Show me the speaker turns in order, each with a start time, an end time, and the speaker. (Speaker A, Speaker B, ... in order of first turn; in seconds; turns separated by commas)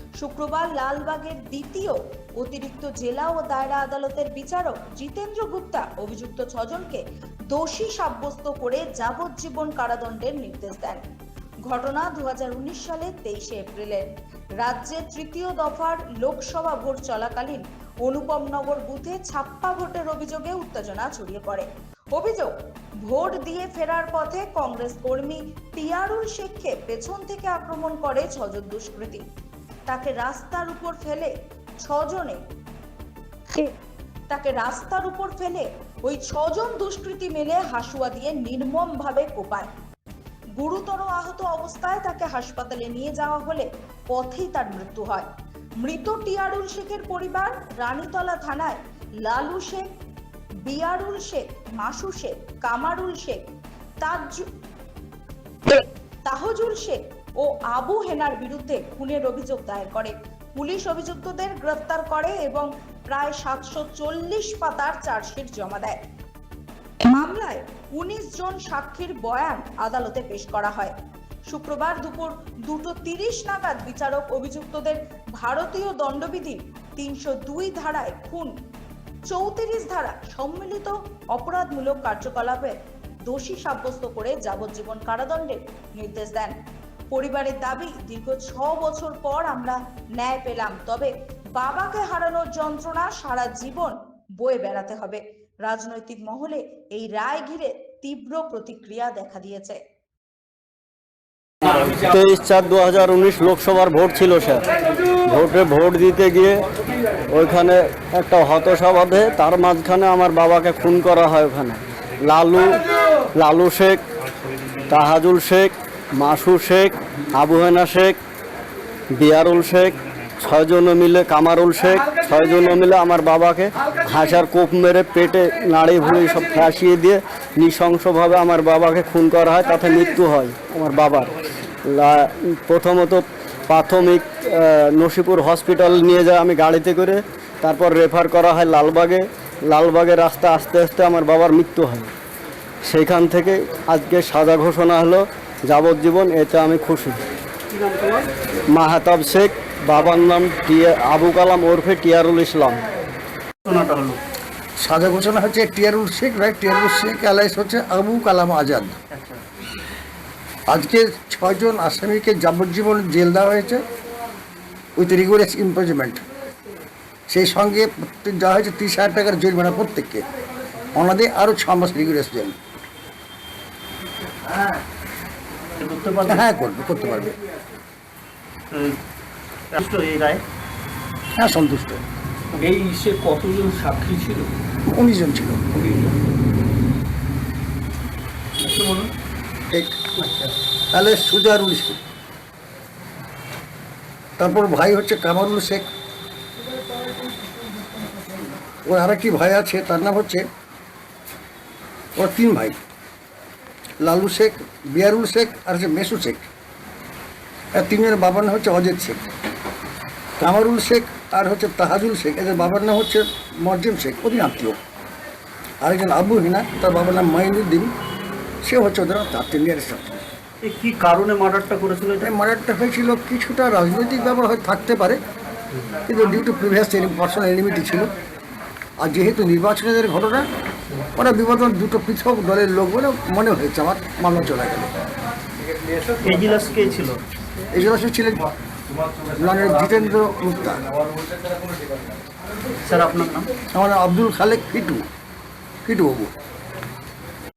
Speaker A: 0.2-11.0, Speaker A: 11.7-14.1, Speaker A: 14.6-29.2, Speaker A: 29.9-31.3, Speaker A: 31.8-32.4, Speaker A: 34.3-39.7, Speaker A: 40.6-45.3, Speaker A: 45.8-49.8, Speaker A: 50.6-53.4, Speaker A: 54.0-54.5, Speaker A: 56.2-66.0, Speaker A: 67.0-70.9, Speaker A: 71.5-78.5, Speaker A: 79.3-86.5, Speaker A: 87.1-99.8, Speaker B: 101.7-104.6, Speaker B: 105.2-106.6, Speaker B: 107.3-112.8, Speaker B: 113.3-114.0, Speaker B: 114.9-118.2, Speaker B: 119.1-131.3, Speaker B: 131.8-142.1, Speaker B: 142.8-147.2, Speaker B: 148.7-152.8, Speaker C: 153.6-154.2, Speaker D: 154.8-159.0, Speaker C: 159.1-159.4, Speaker D: 160.7-163.8, Speaker D: 165.0-166.2, Speaker D: 167.3-170.2, Speaker D: 170.9-172.6, Speaker C: 175.8-176.4, Speaker D: 176.2-177.3, Speaker C: 178.7-179.0, Speaker C: 179.7-180.4, Speaker D: 181.3-182.0, Speaker E: 182.6-184.5, Speaker D: 184.8-185.8, Speaker E: 185.8-186.1, Speaker C: 188.6-189.1, Speaker D: 189.7-190.0, Speaker C: 190.2-190.5, Speaker D: 190.9-192.0, Speaker D: 194.4-195.9, Speaker D: 198.8-200.4, Speaker D: 202.2-202.8, Speaker D: 204.0-206.5, Speaker D: 207.7-209.2, Speaker D: 210.4-214.8, Speaker D: 215.8-217.9, Speaker D: 218.6-220.2, Speaker C: 220.6-222.3, Speaker D: 222.2-225.2, Speaker D: 226.1-228.1, Speaker D: 229.0-230.5, Speaker D: 231.2-234.9, Speaker C: 236.2-237.2, Speaker D: 237.7-238.4, Speaker D: 239.2-240.8, Speaker C: 242.8-243.5, Speaker D: 243.7-245.0, Speaker D: 245.8-246.3